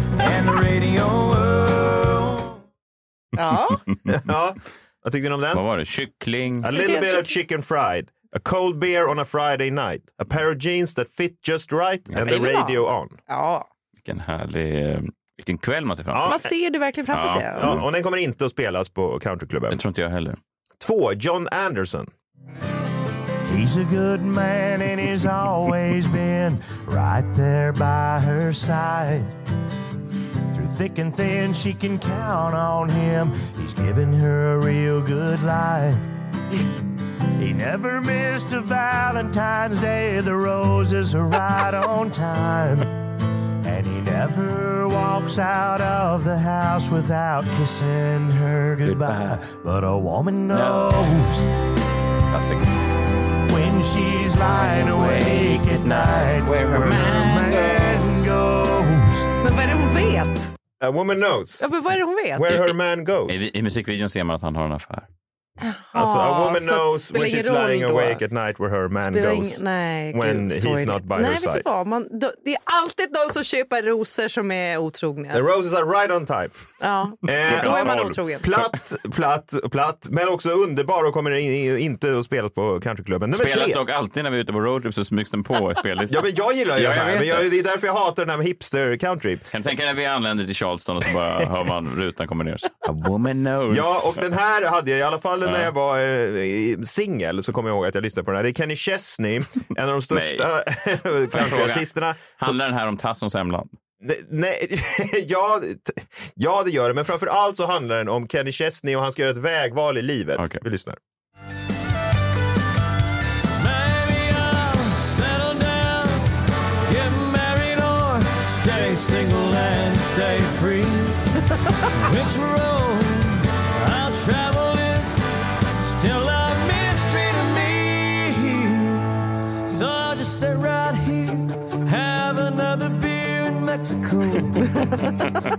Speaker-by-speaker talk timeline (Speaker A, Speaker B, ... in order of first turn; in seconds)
Speaker A: 0.1-2.6, 23.5-29.3, 30.5-36.0, 37.4-42.9, 43.6-51.4, 53.5-59.2, 113.6-116.3, 116.8-121.2, 122.0-125.2, 125.8-134.8
Speaker B: 3.4-3.8, 6.7-7.3, 12.2-13.7, 16.2-17.7, 59.4-60.5, 61.6-62.5, 65.6-68.2, 69.0-75.4, 76.8-78.5
Speaker C: 4.1-5.6, 6.6-13.2, 16.1-16.4, 17.6-19.8, 20.8-22.1, 60.8-61.6, 62.3-63.4, 65.9-71.6, 75.3-76.5, 77.2-83.8, 86.1-89.5, 93.7-102.5, 104.0-111.0
Speaker D: 5.5-6.7, 14.0-16.4, 17.1-17.8, 19.7-20.4, 48.8-49.5, 50.5-51.2, 52.3-52.7, 54.5-57.9, 63.3-65.1, 77.4-78.6, 83.3-87.5, 89.5-94.2, 95.4-95.7, 100.1-100.5, 101.3-103.7